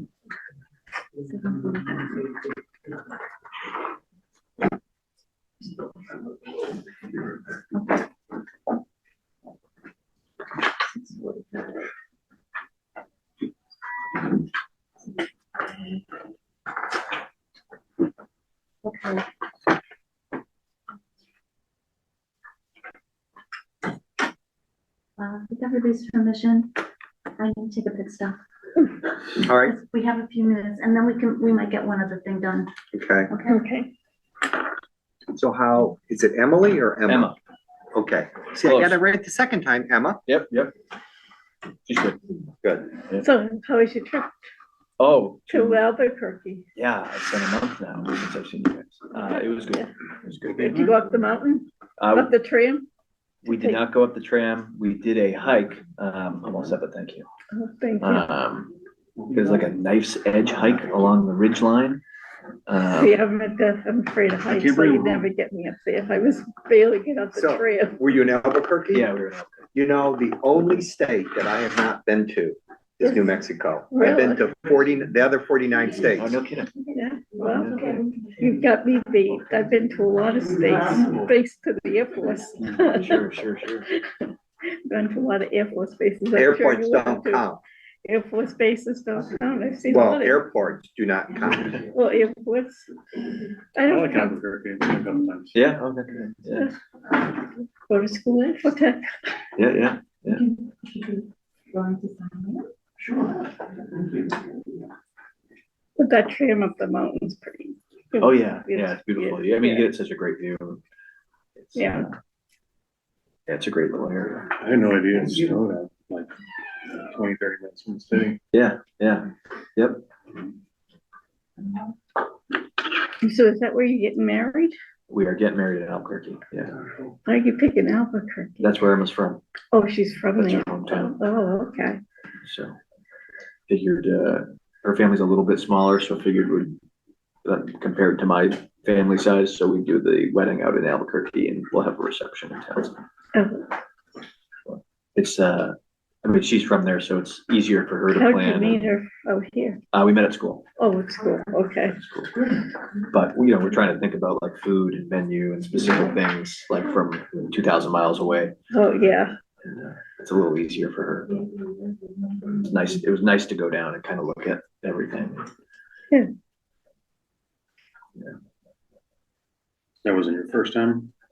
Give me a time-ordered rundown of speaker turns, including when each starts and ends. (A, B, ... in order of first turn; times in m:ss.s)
0:01.2-0:02.3 A
0:07.7-0:08.0 A
0:10.9-0:11.8 A
0:18.8-0:19.2 A
0:25.2-0:26.7 A
0:27.4-0:28.4 A
0:29.4-0:32.7 A
0:29.4-0:29.7 B
0:32.9-0:33.3 B
0:33.3-0:33.6 A
0:33.5-0:33.9 C
0:35.3-0:37.3 B
0:37.1-0:37.4 D
0:37.9-0:40.2 B
0:38.6-0:39.0 D
0:40.3-0:40.7 D
0:41.9-0:42.2 D
0:42.6-0:43.0 B
0:43.2-0:44.5 C
0:45.0-0:45.8 D
0:45.5-0:46.6 C
0:46.7-0:50.9 D
0:49.1-0:49.9 C
0:50.5-0:52.9 C
0:52.0-0:52.3 D
0:53.4-0:53.8 C
0:53.4-0:57.3 D
0:57.5-0:58.3 C
0:58.0-0:58.7 D
0:59.3-1:02.0 D
1:02.7-1:03.2 D
1:02.9-1:08.0 C
1:07.3-1:09.1 B
1:08.9-1:09.7 D
1:09.7-1:16.3 B
1:13.0-1:13.4 C
1:13.9-1:14.4 C
1:16.1-1:16.7 D
1:16.9-1:23.2 C
1:22.6-1:23.9 D
1:23.9-1:24.3 C
1:24.9-1:27.5 C
1:26.3-1:27.6 B
1:28.0-1:30.4 C
1:29.9-1:31.9 B
1:31.9-1:32.9 C
1:33.7-1:34.4 C
1:33.8-1:35.6 E
1:35.5-1:36.7 D
1:37.4-1:39.4 C
1:39.6-1:40.4 D
1:40.5-1:42.7 F
1:46.0-1:49.9 C
1:48.2-1:50.8 D
1:51.6-1:52.1 D
1:51.7-1:52.1 C
1:53.5-1:54.5 D
1:54.6-1:56.3 E
1:56.9-1:58.4 E
1:58.5-2:00.0 D
2:03.2-2:04.8 C
2:05.1-2:06.7 D
2:07.2-2:08.8 C
2:08.6-2:09.4 D
2:09.7-2:12.0 C
2:10.3-2:11.2 D
2:12.4-2:12.8 D
2:13.7-2:16.8 D
2:17.4-2:23.0 D
2:23.3-2:23.6 C
2:24.7-2:28.9 D
2:28.2-2:29.8 C
2:29.9-2:30.6 D
2:30.8-2:32.0 C
2:32.0-2:32.5 D
2:33.1-2:38.6 D
2:38.7-2:39.3 C
2:39.7-2:41.5 D
2:42.6-2:45.5 D
2:50.0-2:51.1 E